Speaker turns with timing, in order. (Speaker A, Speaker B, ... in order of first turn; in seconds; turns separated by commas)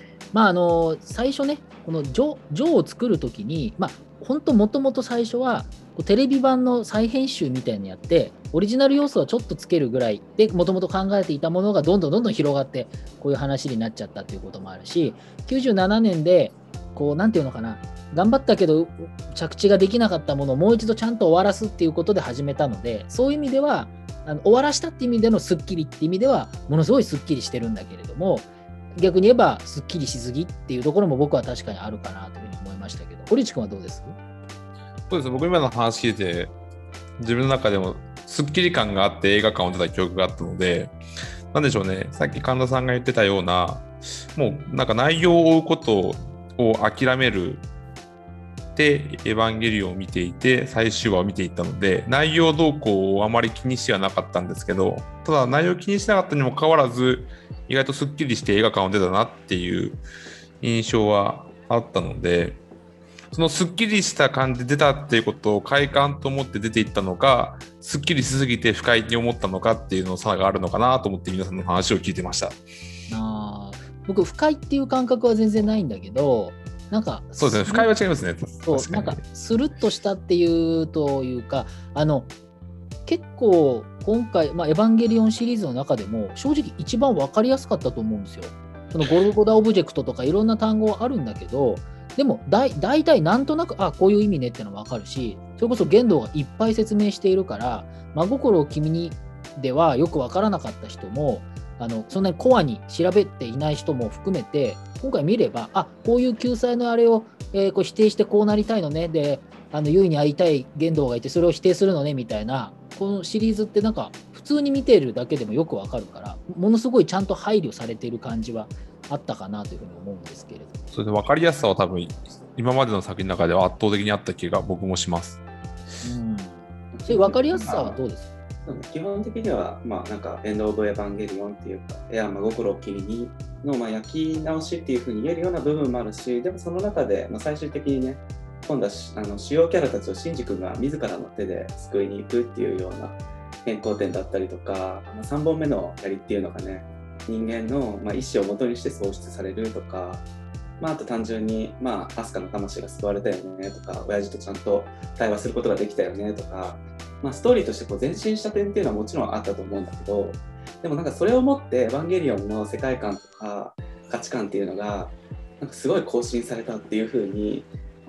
Speaker A: 0.3-34.2, Speaker B: 35.1-36.5, Speaker B: 37.2-41.0, Speaker B: 41.5-47.6, Speaker B: 48.8-60.0, Speaker B: 60.6-62.6, Speaker B: 63.3-72.6, Speaker A: 73.1-77.9, Speaker B: 77.4-79.2, Speaker A: 78.6-82.3, Speaker A: 83.1-120.8, Speaker B: 120.9-125.4, Speaker A: 126.0-128.3, Speaker C: 126.9-128.0, Speaker C: 128.6-150.2, Speaker C: 150.8-167.7